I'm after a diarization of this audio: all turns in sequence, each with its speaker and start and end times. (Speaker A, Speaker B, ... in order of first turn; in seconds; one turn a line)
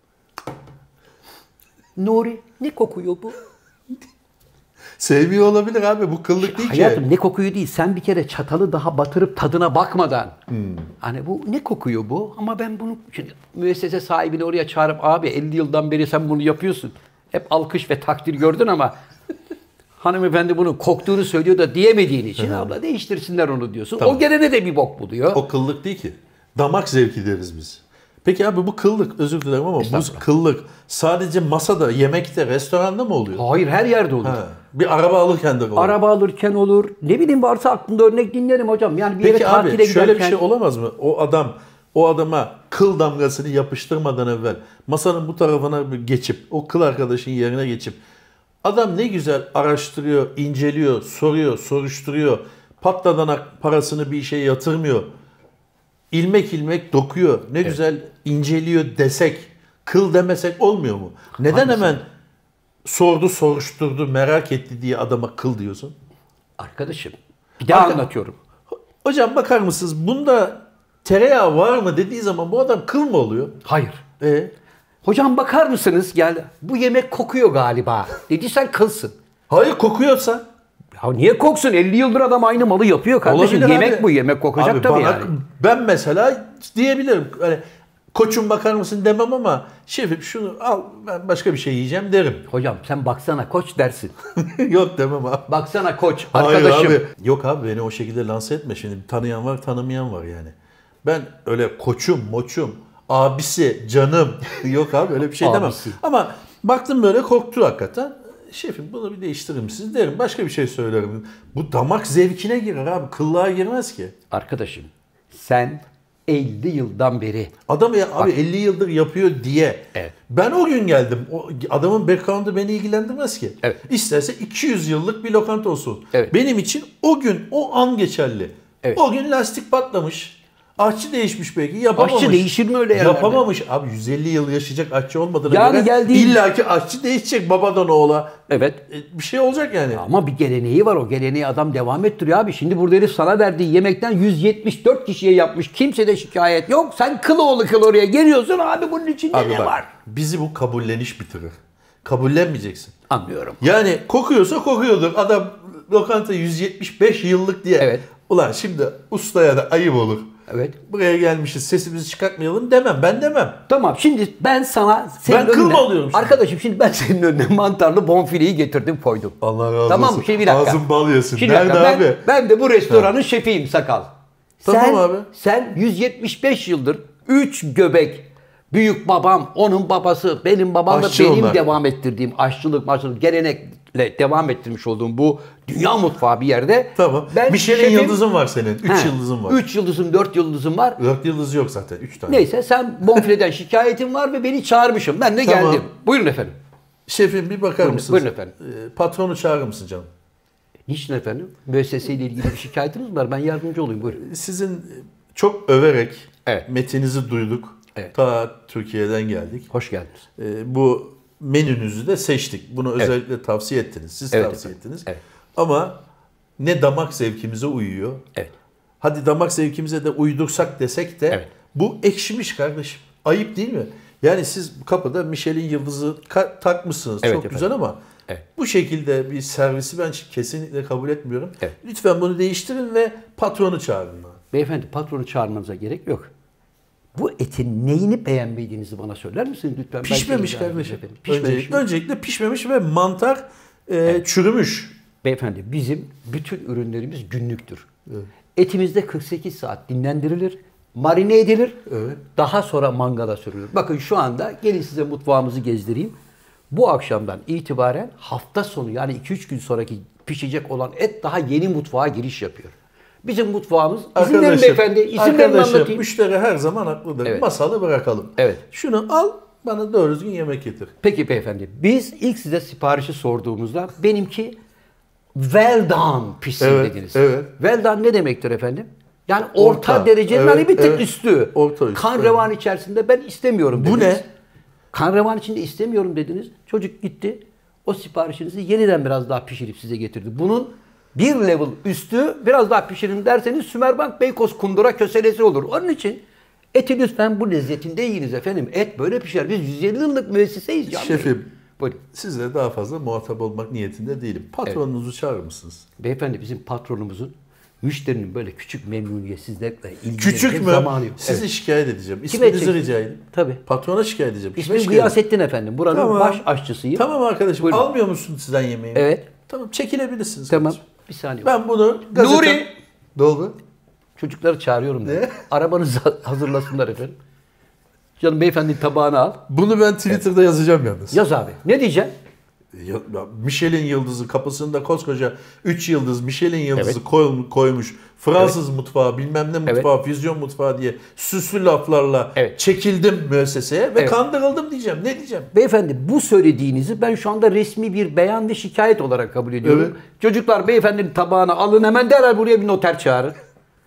Speaker A: 2.0-3.4
Speaker B: 5.0-7.0
Speaker A: 6.4-10.4
Speaker B: 10.5-10.9
Speaker A: 11.0-18.9
Speaker A: 20.0-25.4
Speaker B: 22.4-22.7
Speaker B: 24.0-24.2
Speaker B: 25.3-33.5
Speaker A: 29.8-30.2
Speaker A: 33.4-34.4
Speaker B: 34.2-36.0
Speaker A: 35.8-40.4
Speaker B: 39.2-48.0
Speaker B: 48.6-55.1
Speaker B: 56.1-62.0
Speaker A: 61.4-62.0
Speaker B: 62.9-66.0
Speaker A: 66.6-68.4
Speaker B: 67.7-68.1
Speaker B: 69.0-73.6
Speaker A: 73.6-74.0
Speaker B: 74.2-74.5
Speaker A: 75.0-79.2
Speaker B: 79.5-80.4
Speaker A: 81.0-85.3
Speaker B: 83.2-92.5
Speaker A: 92.5-94.2
Speaker B: 94.4-95.5
Speaker A: 95.5-97.0
Speaker B: 96.3-114.2
Speaker A: 105.4-106.0
Speaker A: 114.3-117.5
Speaker B: 117.7-140.0
Speaker A: 132.0-133.4
Speaker A: 135.5-136.4
Speaker A: 138.5-138.8
Speaker A: 139.9-149.9
Speaker B: 149.3-152.9
Speaker A: 153.1-153.6
Speaker B: 153.6-160.3
Speaker A: 157.8-158.1
Speaker A: 160.5-160.8
Speaker B: 160.9-163.6
Speaker A: 163.7-170.8
Speaker B: 165.2-166.4
Speaker B: 169.4-172.2
Speaker A: 171.3-174.1
Speaker A: 174.6-188.2
Speaker B: 174.7-175.3
Speaker B: 180.9-181.7
Speaker B: 187.0-189.6
Speaker A: 188.8-191.0
Speaker B: 191.0-192.5
Speaker A: 192.3-196.6
Speaker B: 195.4-195.9
Speaker B: 197.1-200.1
Speaker A: 197.8-198.5
Speaker A: 200.9-204.2
Speaker B: 204.1-209.7
Speaker A: 209.7-210.2
Speaker B: 210.4-216.0
Speaker A: 214.3-215.2
Speaker B: 216.6-218.2
Speaker B: 219.0-228.0
Speaker A: 227.2-227.7
Speaker B: 228.6-234.4
Speaker A: 234.5-236.3
Speaker A: 237.2-241.8
Speaker B: 240.0-245.0
Speaker A: 245.2-247.9
Speaker A: 248.6-251.8
Speaker B: 251.9-252.2
Speaker A: 252.3-256.1
Speaker A: 256.7-266.0
Speaker B: 264.2-270.9
Speaker A: 268.4-268.6
Speaker A: 271.0-274.6
Speaker A: 275.4-284.3
Speaker B: 276.6-277.5
Speaker B: 279.6-282.5
Speaker B: 283.7-284.2
Speaker A: 284.9-296.2
Speaker A: 296.7-302.0
Speaker B: 300.9-301.5
Speaker B: 302.1-305.9
Speaker A: 306.0-311.5
Speaker B: 310.2-315.2
Speaker A: 312.3-313.6
Speaker A: 314.6-317.1
Speaker B: 315.9-320.8
Speaker A: 317.6-317.9
Speaker A: 318.9-319.3
Speaker A: 320.5-321.5
Speaker B: 321.4-323.6
Speaker A: 322.1-322.7
Speaker A: 324.2-327.2
Speaker B: 325.1-325.4
Speaker A: 328.2-329.4
Speaker B: 329.5-331.2
Speaker A: 331.1-332.1
Speaker B: 332.7-345.5
Speaker A: 345.5-353.4
Speaker B: 349.6-349.9